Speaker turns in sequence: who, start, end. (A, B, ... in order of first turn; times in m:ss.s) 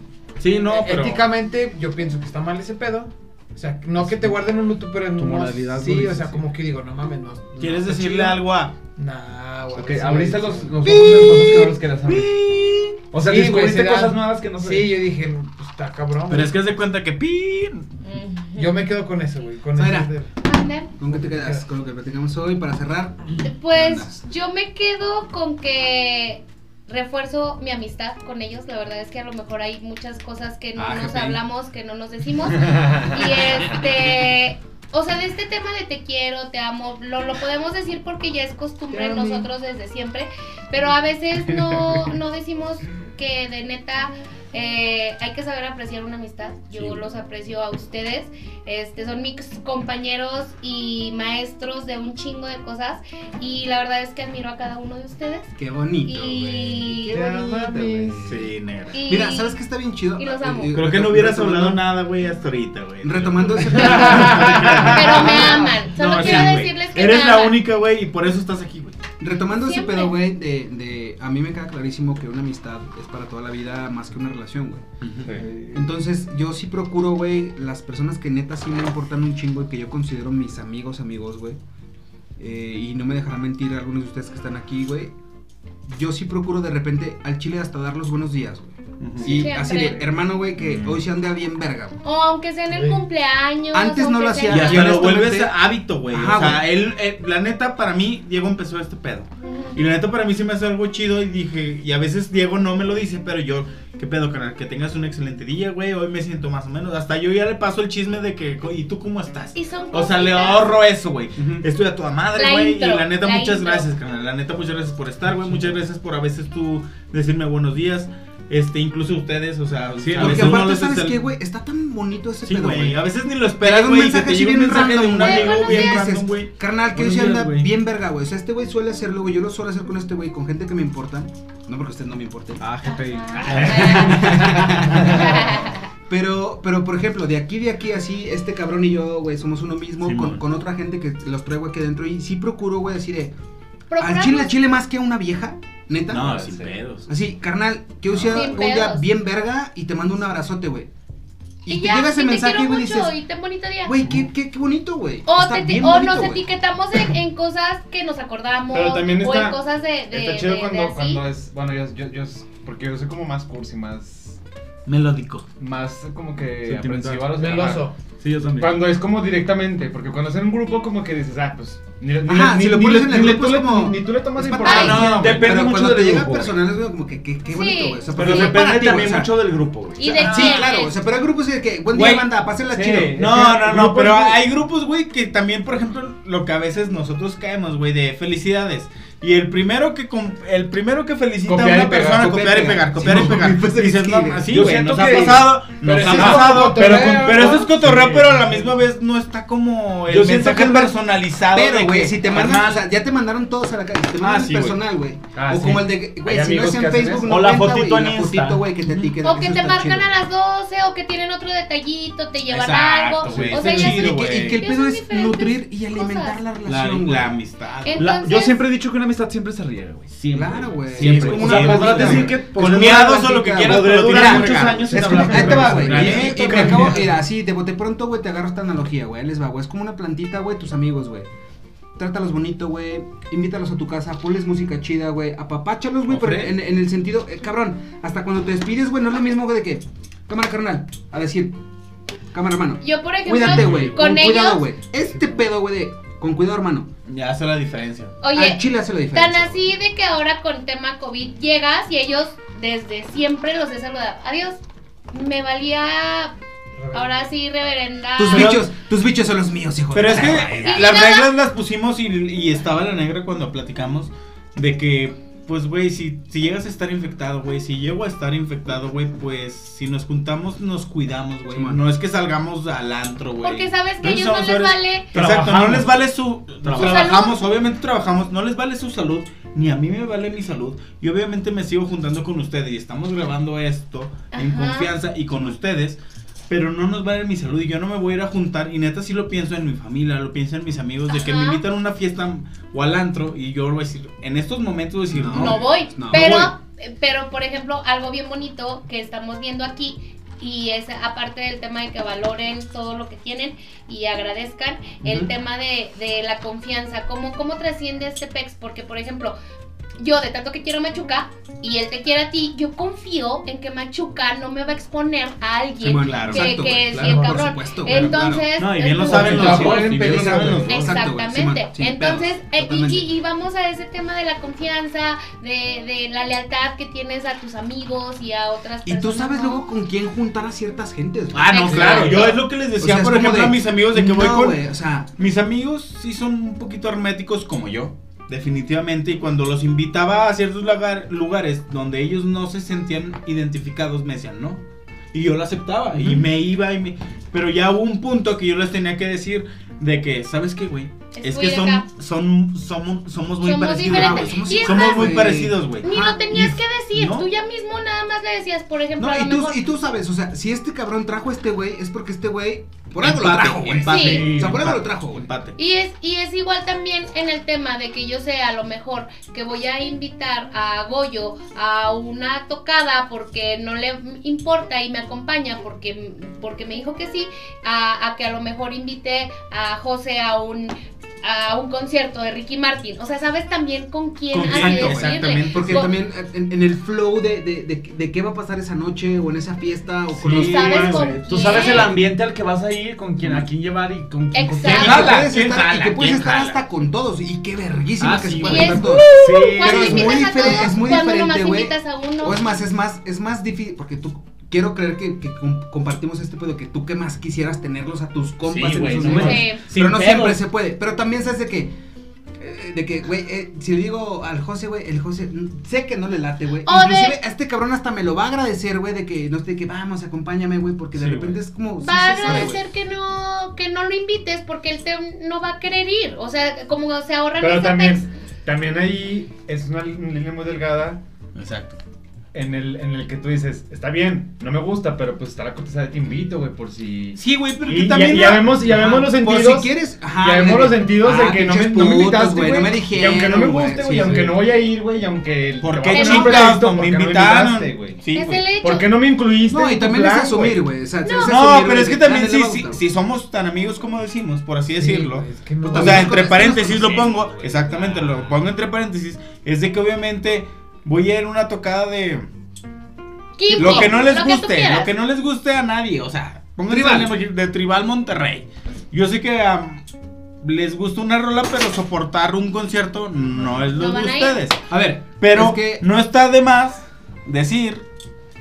0:00.4-0:01.2 A
0:00.5-0:08.4 B
0:04.0-0:04.4 C
0:05.1-0:06.4 C
0:07.6-0:08.7 A
0:09.0-0:10.9 B
0:09.7-0:12.4 C
0:10.8-0:11.7 D
0:12.0-0:13.1 A
0:13.1-0:15.0 C
0:13.2-0:16.6 B
0:16.3-0:17.9 A
0:18.0-0:18.7 E
0:18.6-0:20.3 B
0:19.7-0:20.1 D
0:20.4-0:20.9 E
0:21.0-0:24.2 D
0:21.0-0:21.6 B
0:23.4-0:55.5 E
0:30.8-0:31.4 D
0:33.1-0:33.8 D
0:38.9-0:39.4 B
0:46.7-0:47.0 A
0:55.6-0:58.5 D
0:56.0-0:57.2 E
0:57.1-0:58.2 B
0:58.2-0:59.0 A
0:58.9-0:59.6 E
0:59.0-1:01.8 D
1:00.2-1:00.8 E
1:00.7-1:09.0 A
1:03.0-1:06.4 D
1:03.8-1:04.7 B
1:04.8-1:07.6 E
1:09.2-1:14.8 D
1:09.5-1:10.2 E
1:15.0-1:15.3 A
1:15.7-1:21.6 D
1:22.4-1:25.1 D
1:25.9-1:32.0 D
1:29.0-1:29.5 A
1:29.2-1:30.1 E
1:30.6-1:31.0 A
1:32.0-1:35.1 E
1:32.7-1:33.0 B
1:33.7-1:36.6 D
1:34.5-2:01.2 A
1:39.4-1:39.8 E
1:49.5-1:50.7 E
1:52.3-1:53.9 E
2:00.0-2:00.6 C
2:00.1-2:03.0 D
2:02.4-2:07.7 A
2:03.6-2:12.7 D
2:05.2-2:06.1 E
2:12.6-2:15.2 C
2:12.8-2:15.9 E
2:13.4-2:13.9 A
2:13.6-2:23.3 D
2:20.0-2:20.4 A
2:23.9-2:24.5 E
2:24.0-2:26.5 D
2:26.1-2:27.1 A
2:26.3-2:26.7 F
2:27.1-2:30.9 D
2:28.1-2:28.6 A
2:28.3-2:29.0 E
2:31.6-2:33.1 D
2:31.7-2:33.9 E
2:33.8-2:36.4 D
2:35.2-2:41.2 E
2:38.7-2:39.6 F
2:40.1-2:44.4 F
2:44.8-2:45.5 A
2:45.6-2:47.9 F
2:46.6-2:47.6 C
2:47.3-2:47.9 B
2:48.2-2:48.8 C
2:48.5-2:55.5 F
2:52.2-2:59.4 D
2:54.6-2:55.1 E
2:54.7-2:56.6 C
2:57.5-2:58.6 E
2:58.1-3:00.6 C
3:00.0-3:00.9 E
3:00.1-3:03.2 D
3:02.0-3:02.2 A
3:02.7-3:04.4 C
3:03.1-3:22.8 A
3:11.5-3:12.2 F
3:12.0-3:14.9 D
3:13.0-3:13.3 C
3:14.5-3:17.6 C
3:14.9-3:15.2 F
3:15.8-3:17.7 B
3:16.0-3:18.6 F
3:20.1-3:20.9 C
3:21.5-3:30.2 D
3:24.2-3:24.8 A
3:25.3-3:27.3 F
3:27.2-3:28.6 C
3:27.4-3:27.7 A
3:29.2-3:36.4 E
3:32.5-3:34.6 A
3:33.6-3:37.3 D
3:36.6-3:38.1 A
3:37.8-3:38.6 E
3:38.0-3:47.1 C
3:40.3-3:51.3 D
3:41.0-3:47.0 A
3:41.2-3:47.0 F
3:52.0-4:01.6 D
3:56.1-3:56.6 C
4:02.3-4:06.9 D
4:02.8-4:04.7 E
4:03.5-4:04.0 C
4:07.1-4:08.2 A
4:08.2-4:14.6 E
4:08.3-4:09.7 D
4:15.1-4:16.3 E
4:16.8-4:17.2 B
4:16.9-4:18.6 E
4:18.2-4:21.0 D
4:18.3-4:18.7 A
4:19.9-4:56.5 A
4:20.6-4:21.3 E
4:31.5-4:31.8 D
4:33.4-4:35.1 E
4:35.1-4:35.9 C
4:36.6-4:37.1 C
4:36.7-4:37.4 E
4:44.3-4:44.9 E
4:51.1-4:51.6 E
4:55.1-4:56.5 D
4:55.3-5:09.4 E
5:05.0-5:05.3 D
5:10.0-5:19.7 E
5:15.8-5:23.1 D
5:15.9-5:16.5 A
5:16.9-5:18.1 B
5:18.5-5:21.0 A
5:19.1-5:20.6 C
5:19.1-5:20.6 B
5:20.6-5:29.6 E
5:28.8-5:35.1 D
5:31.3-5:34.6 A
5:31.5-5:32.3 E
5:35.2-5:44.6 A
5:45.1-5:57.3 A
5:45.9-5:46.2 D
5:51.1-5:51.9 E
5:53.4-5:55.3 E
5:53.8-5:56.3 D
5:55.8-5:59.6 E
5:59.0-6:05.3 D
6:03.0-6:05.6 A
6:03.9-6:04.3 E
6:04.0-6:04.6 C
6:05.6-6:25.9 E
6:24.3-6:25.9 A
6:24.4-6:31.1 D
6:30.2-6:36.1 C
6:30.3-6:31.1 A
6:30.3-6:31.9 E
6:34.3-6:35.1 E
6:34.6-6:51.7 D
6:34.6-6:36.6 A
6:38.0-6:40.3 C
6:38.0-6:38.8 A
6:38.4-6:42.4 E
6:48.5-6:50.4 A
6:48.8-6:49.9 C
6:49.0-6:49.6 E
6:52.4-7:02.6 D
6:56.6-6:57.2 E
7:01.0-7:01.4 F
7:01.8-7:08.1 E
7:07.4-7:11.0 F
7:11.4-7:11.8 A
7:12.3-7:28.0 F
7:17.2-7:18.6 A
7:18.5-7:24.4 D
7:25.6-7:28.6 A
7:25.9-7:26.5 E
7:28.1-7:28.9 E
7:28.6-7:30.6 F
7:29.5-7:32.8 D
7:31.0-7:31.4 E
7:31.2-7:42.3 A
7:34.7-7:36.2 B
7:35.6-7:38.3 D
7:43.4-7:44.9 E
7:43.5-7:44.0 D
7:43.5-7:49.8 A
7:46.7-7:47.1 D
7:50.4-7:54.6 A
7:53.4-7:53.7 F
7:53.7-7:54.4 E
7:54.7-7:55.8 D
7:55.2-7:57.8 A